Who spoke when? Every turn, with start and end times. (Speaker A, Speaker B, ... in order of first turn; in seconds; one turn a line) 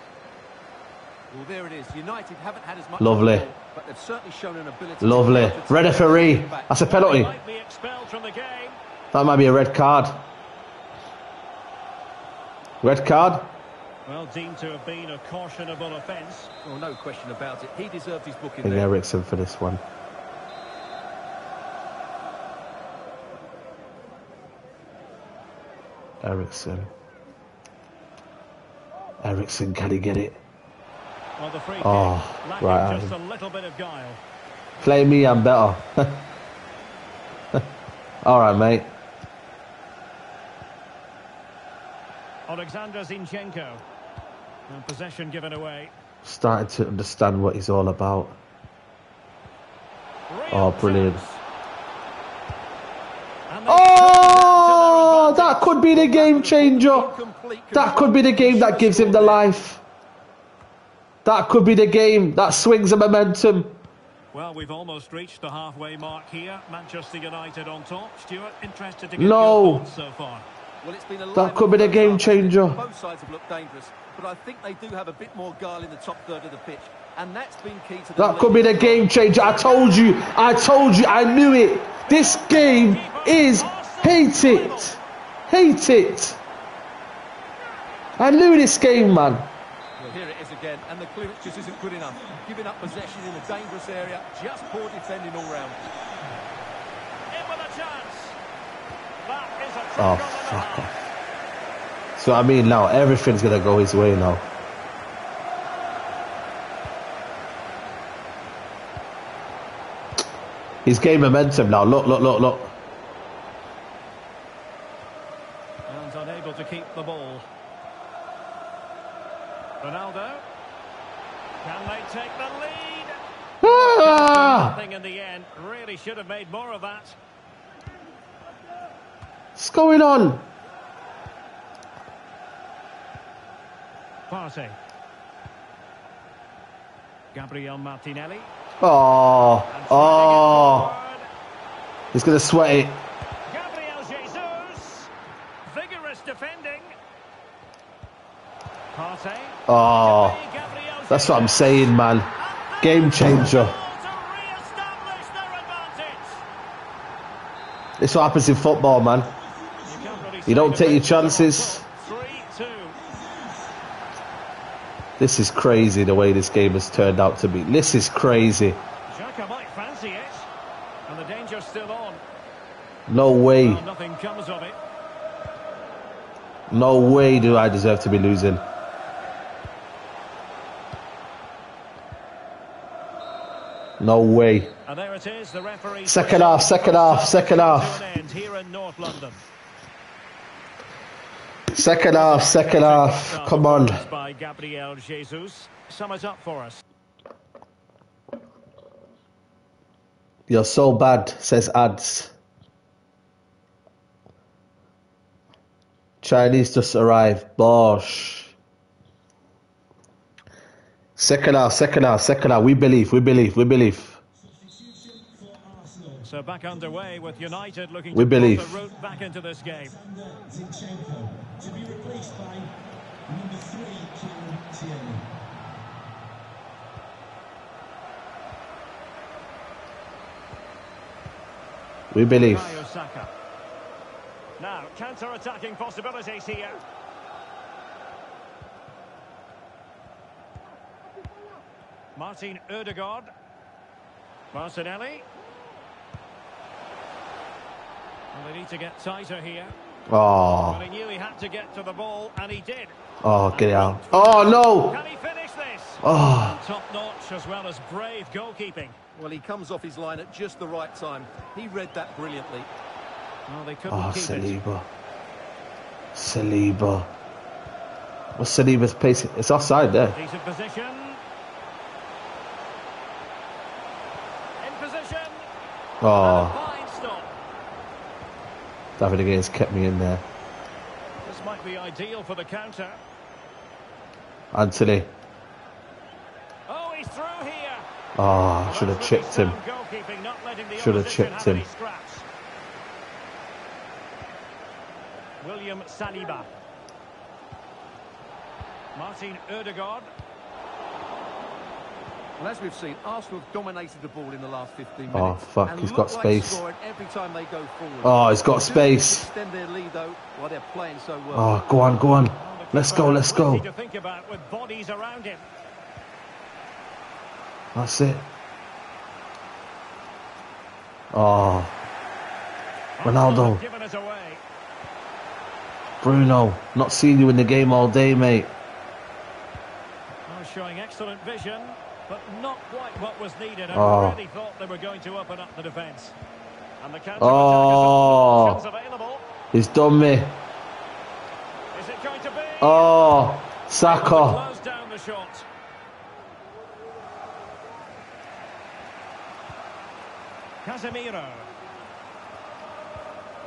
Speaker A: 1.3-6.7
Speaker B: 3.0-3.5
Speaker B: 5.0-7.3
Speaker C: 6.8-8.8
Speaker B: 9.1-10.2
Speaker B: 12.8-13.5
Speaker C: 14.1-16.5
Speaker A: 16.6-18.9
Speaker B: 18.6-19.8
Speaker B: 26.2-26.9
Speaker B: 29.2-30.4
Speaker C: 31.4-34.2
Speaker B: 31.8-33.1
Speaker B: 34.8-36.2
Speaker B: 38.2-38.9
Speaker C: 42.5-43.8
Speaker C: 44.7-45.9
Speaker B: 46.2-48.4
Speaker C: 50.3-51.4
Speaker B: 50.5-51.2
Speaker C: 53.5-55.8
Speaker B: 53.7-57.1
Speaker A: 55.9-59.5
Speaker B: 57.7-59.8
Speaker B: 61.2-63.8
Speaker C: 64.3-70.5
Speaker B: 69.2-69.8
Speaker A: 70.8-79.2
Speaker B: 71.3-72.8
Speaker B: 78.2-86.4
Speaker C: 79.4-85.0
Speaker B: 88.2-89.5
Speaker A: 90.0-95.8
Speaker D: 91.4-93.9
Speaker D: 94.6-96.4
Speaker C: 97.3-98.4
Speaker C: 99.2-101.1
Speaker B: 100.0-100.9
Speaker B: 102.2-104.4
Speaker B: 110.8-112.7
Speaker C: 115.9-117.5
Speaker C: 119.8-120.5
Speaker C: 121.6-127.2
Speaker B: 123.6-124.8
Speaker B: 129.6-130.4
Speaker C: 134.3-134.8
Speaker C: 137.3-138.5
Speaker B: 138.8-140.9
Speaker C: 139.7-141.3
Speaker B: 142.1-143.0
Speaker C: 143.5-145.1
Speaker C: 145.7-147.0
Speaker C: 148.9-156.4
Speaker B: 149.7-150.4
Speaker B: 151.1-152.3
Speaker B: 152.8-153.8
Speaker B: 158.0-159.3
Speaker D: 159.3-160.4
Speaker C: 159.9-163.0
Speaker B: 160.5-161.8
Speaker D: 163.0-163.8
Speaker B: 165.2-168.8
Speaker C: 169.1-170.5
Speaker C: 171.1-172.2
Speaker B: 173.1-173.8
Speaker C: 173.6-174.8
Speaker B: 176.7-178.6
Speaker B: 184.0-184.7
Speaker C: 184.8-189.4
Speaker B: 186.1-188.0
Speaker B: 191.7-194.0
Speaker C: 192.0-196.8
Speaker B: 200.5-202.3
Speaker B: 206.2-208.6
Speaker B: 211.2-214.2
Speaker D: 214.4-216.3
Speaker C: 216.2-220.0
Speaker B: 218.1-218.8
Speaker D: 219.8-222.8
Speaker D: 223.3-225.3
Speaker B: 232.1-232.8
Speaker C: 232.3-233.3
Speaker C: 234.6-236.8
Speaker C: 242.2-243.3
Speaker C: 244.5-245.3
Speaker C: 248.3-249.7
Speaker B: 250.1-250.8
Speaker C: 250.7-252.9
Speaker B: 253.2-255.0
Speaker C: 253.5-259.0
Speaker B: 256.0-256.6
Speaker A: 259.1-262.7
Speaker C: 263.5-264.6
Speaker B: 263.9-264.9
Speaker B: 266.1-267.1
Speaker B: 268.4-270.2
Speaker C: 270.1-271.2
Speaker C: 274.6-275.4
Speaker B: 276.0-276.6
Speaker C: 276.2-277.3
Speaker B: 279.0-280.2
Speaker C: 281.2-283.0
Speaker B: 284.5-285.1
Speaker C: 286.7-287.9
Speaker B: 288.2-289.6
Speaker C: 288.7-292.3
Speaker B: 290.8-291.6
Speaker C: 295.4-296.5
Speaker C: 298.9-300.1
Speaker A: 302.4-311.6
Speaker B: 305.1-306.6
Speaker B: 308.0-309.3
Speaker B: 311.3-313.6
Speaker C: 312.3-315.4
Speaker B: 317.7-318.3
Speaker B: 321.1-321.7
Speaker C: 323.0-324.4
Speaker B: 323.0-323.6
Speaker B: 326.0-328.5
Speaker C: 330.3-336.2
Speaker B: 333.7-334.2
Speaker C: 336.8-339.2
Speaker B: 337.2-338.6
Speaker B: 339.5-340.4
Speaker C: 341.7-342.9
Speaker B: 342.6-344.4
Speaker C: 343.8-345.5
Speaker C: 350.6-351.5